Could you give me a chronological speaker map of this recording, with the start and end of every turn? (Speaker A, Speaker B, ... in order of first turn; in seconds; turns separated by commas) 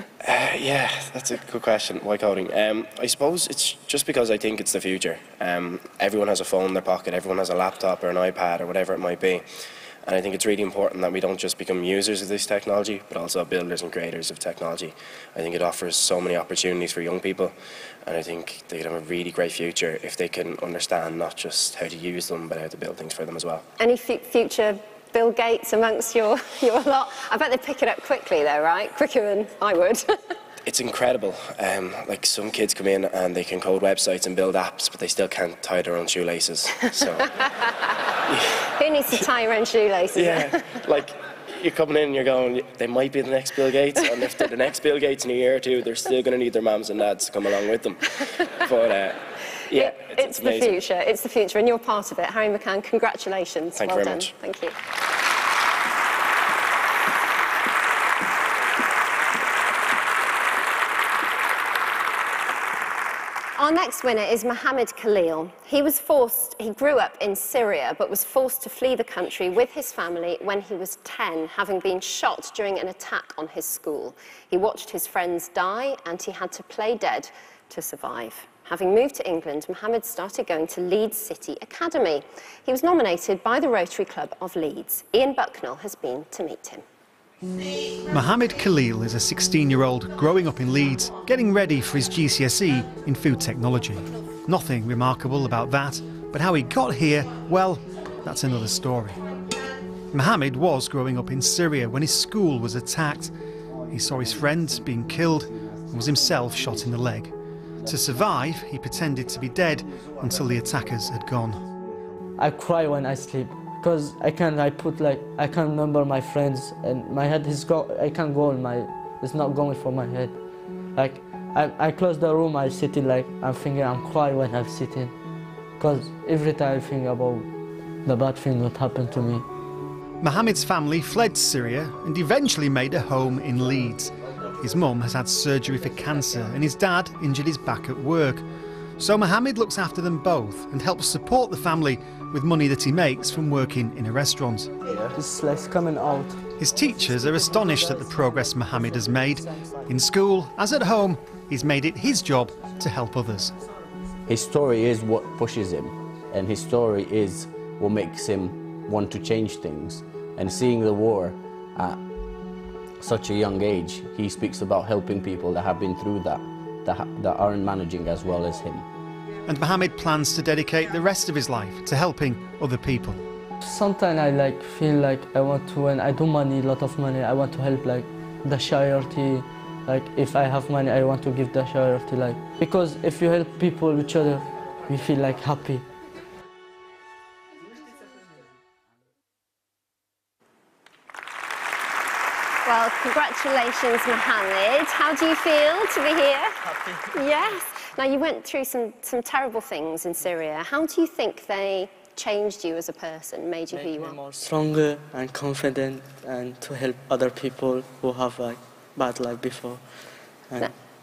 Speaker A: 0.2-9.4, Speaker A: 10.0-23.6, Speaker B: 23.8-30.2, Speaker A: 30.6-37.3, Speaker A: 38.3-38.6, Speaker B: 38.8-40.6, Speaker A: 40.1-48.0, Speaker A: 48.6-50.7, Speaker B: 49.7-54.7, Speaker A: 53.8-54.3, Speaker B: 63.6-86.8, Speaker C: 88.1-99.2, Speaker C: 100.1-103.3, Speaker C: 103.9-107.3, Speaker C: 107.8-111.6, Speaker D: 112.4-120.4, Speaker D: 120.9-125.1, Speaker D: 125.8-127.5, Speaker D: 128.0-129.5, Speaker C: 130.2-138.4, Speaker C: 139.0-144.8, Speaker E: 144.9-145.1, Speaker D: 145.1-146.4, Speaker C: 146.6-153.5, Speaker E: 154.3-162.0, Speaker E: 163.0-168.8, Speaker C: 169.4-173.2, Speaker D: 173.6-185.8, Speaker B: 192.7-196.5, Speaker B: 197.1-204.2, Speaker D: 203.7-209.8